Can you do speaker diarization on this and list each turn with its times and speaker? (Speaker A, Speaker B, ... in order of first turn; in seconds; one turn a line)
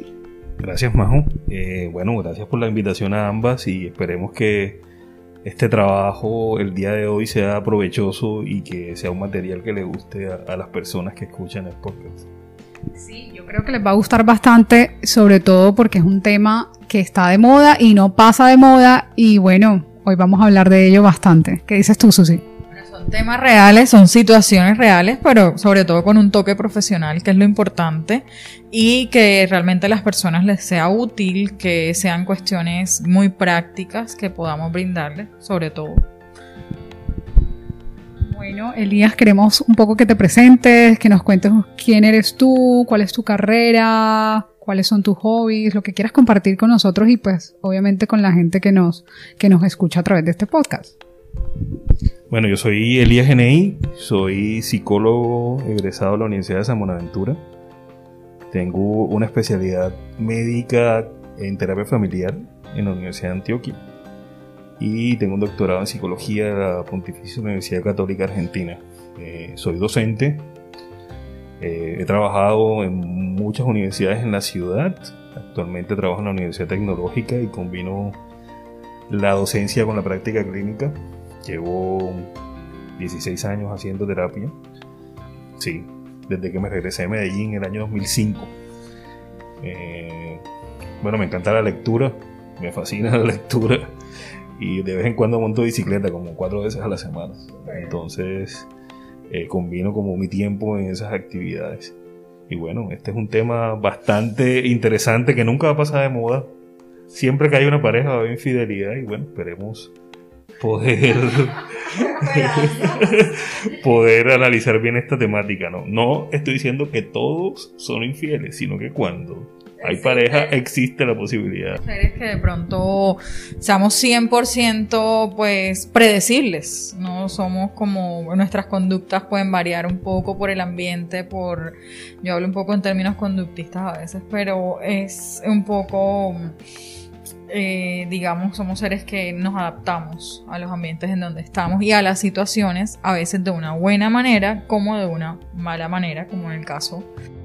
Speaker A: 0.6-4.8
Speaker A: 5.4-12.3
Speaker B: 12.9-22.4
Speaker C: 22.7-36.0
Speaker B: 38.3-51.0
Speaker A: 52.3-57.4
Speaker A: 58.5-63.8
Speaker A: 64.8-70.5
Speaker A: 71.6-78.2
Speaker A: 79.1-82.3
Speaker A: 83.0-84.5
Speaker A: 85.6-88.5
Speaker A: 89.6-90.4
Speaker A: 91.0-93.9
Speaker A: 94.6-98.7
Speaker A: 99.3-101.9
Speaker A: 102.5-106.5
Speaker A: 107.1-109.9
Speaker A: 110.6-121.8
Speaker C: 112.1-113.1
Speaker C: 119.8-120.5
Speaker C: 121.8-136.6
Speaker C: 137.5-147.1